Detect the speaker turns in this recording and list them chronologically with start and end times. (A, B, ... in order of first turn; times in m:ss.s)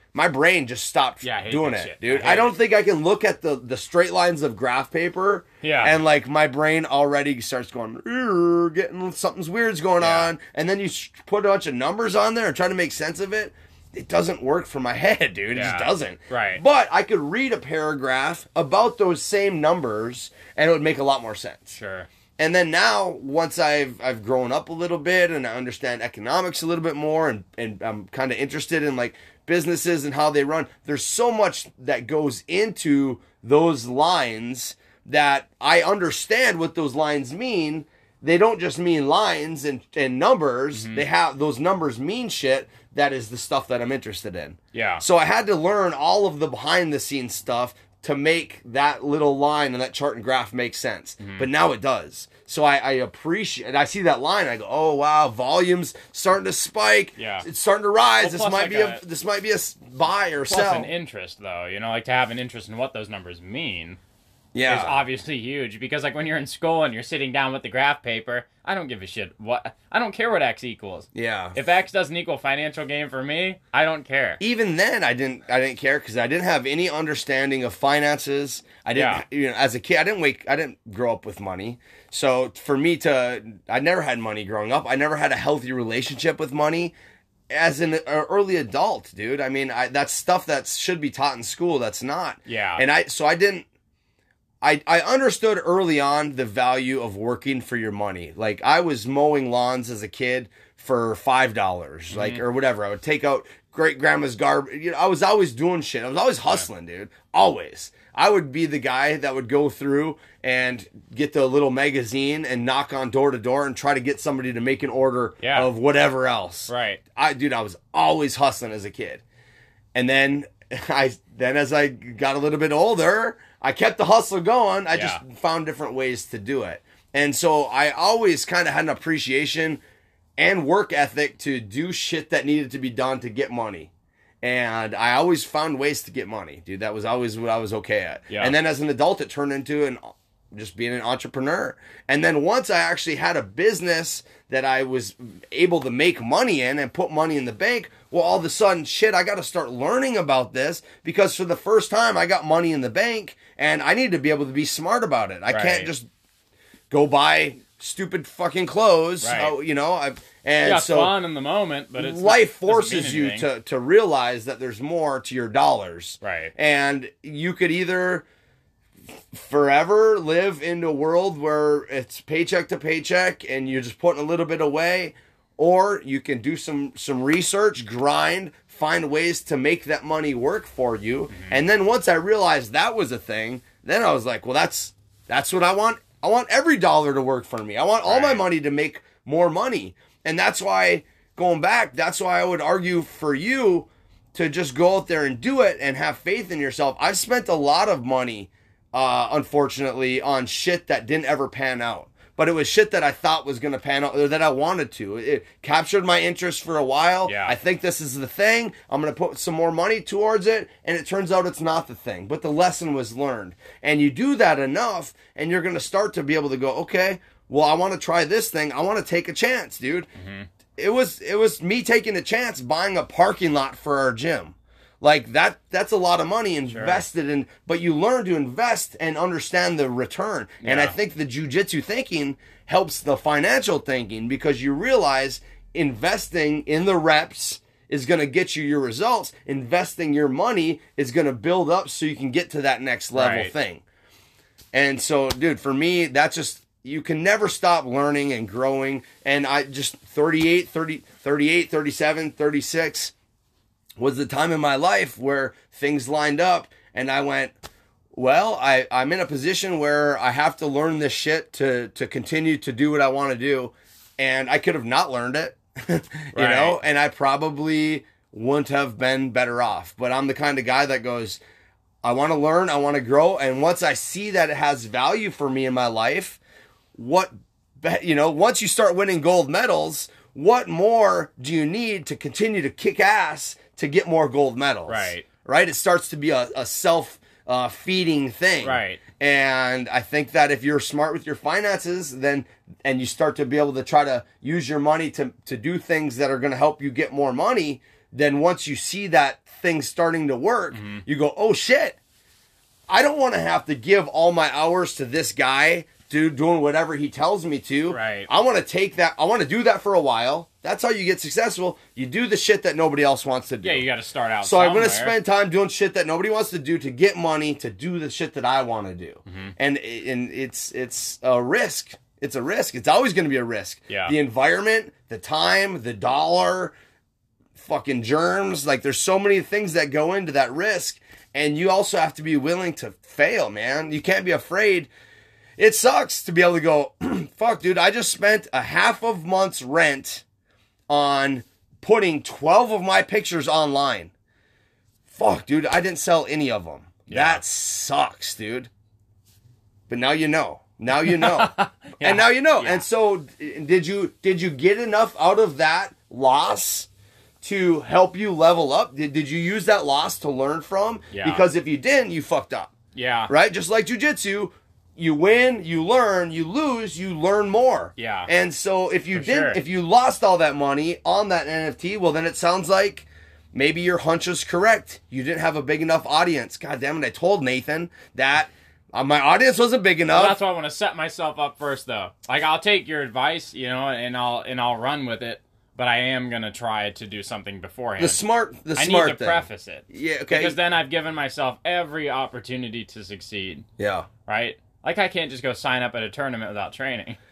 0:00.1-0:21.8 A
0:01.2-0:02.5 B
0:05.6-0:06.0 B
0:10.0-0:10.3 B
0:15.5-0:16.6 B
0:21.7-0:22.1 B
0:22.4-1:00.9 A
0:40.7-0:41.1 B
0:44.7-0:45.0 B
0:51.2-0:51.5 B
0:57.2-0:57.5 B
0:58.2-0:59.0 B
1:00.4-1:04.0 B
1:04.5-1:05.0 A
1:04.6-1:14.4 B
1:11.2-1:11.6 A
1:14.4-1:26.9 A
1:19.0-1:19.2 B
1:27.5-1:33.7 A
1:32.5-1:32.8 B
1:34.6-1:59.2 A
1:42.1-1:42.4 B
1:55.4-1:55.7 B
1:56.7-1:57.0 B
2:00.0-2:09.8 A
2:04.9-2:05.2 B
2:10.4-2:13.9 A
2:14.4-2:36.1 A
2:18.3-2:18.6 B
2:35.5-2:35.9 B
2:36.9-2:41.1 A
2:39.2-2:39.6 B
2:40.6-2:43.5 B
2:42.0-2:48.3 A
2:46.2-2:46.5 B
2:49.3-3:40.1 A
3:01.3-3:01.6 B
3:08.0-3:08.5 B
3:27.3-3:27.6 B
3:40.2-3:40.5 B
3:40.8-4:03.8 A
3:46.7-3:47.0 B
3:50.6-3:51.0 B
4:03.2-4:03.5 B
4:04.7-4:13.1 A
4:14.0-4:17.6 A
4:18.1-4:31.4 A
4:26.4-4:26.8 B
4:32.0-4:36.4 A
4:37.0-5:02.0 A
4:44.9-4:45.3 B
4:48.6-4:49.0 B
5:00.7-5:01.0 B
5:02.9-5:13.9 A
5:07.9-5:08.3 B
5:13.6-5:15.2 B
5:14.4-5:26.8 A
5:19.3-5:19.5 B
5:23.9-5:24.2 B
5:27.6-5:34.9 A
5:35.6-5:40.2 A
5:40.9-5:44.1 A
5:45.1-5:48.7 A
5:47.1-5:47.4 B
5:49.9-5:56.9 A
5:51.0-5:52.8 B
5:57.4-6:02.7 A
6:01.1-6:01.5 B
6:03.0-6:03.3 B
6:03.3-6:20.4 A
6:08.0-6:08.3 B
6:09.1-6:09.6 B
6:20.1-6:28.2 B
6:28.0-6:30.6 A
6:28.8-6:33.7 B
6:33.8-6:34.1 A
6:34.3-6:37.2 B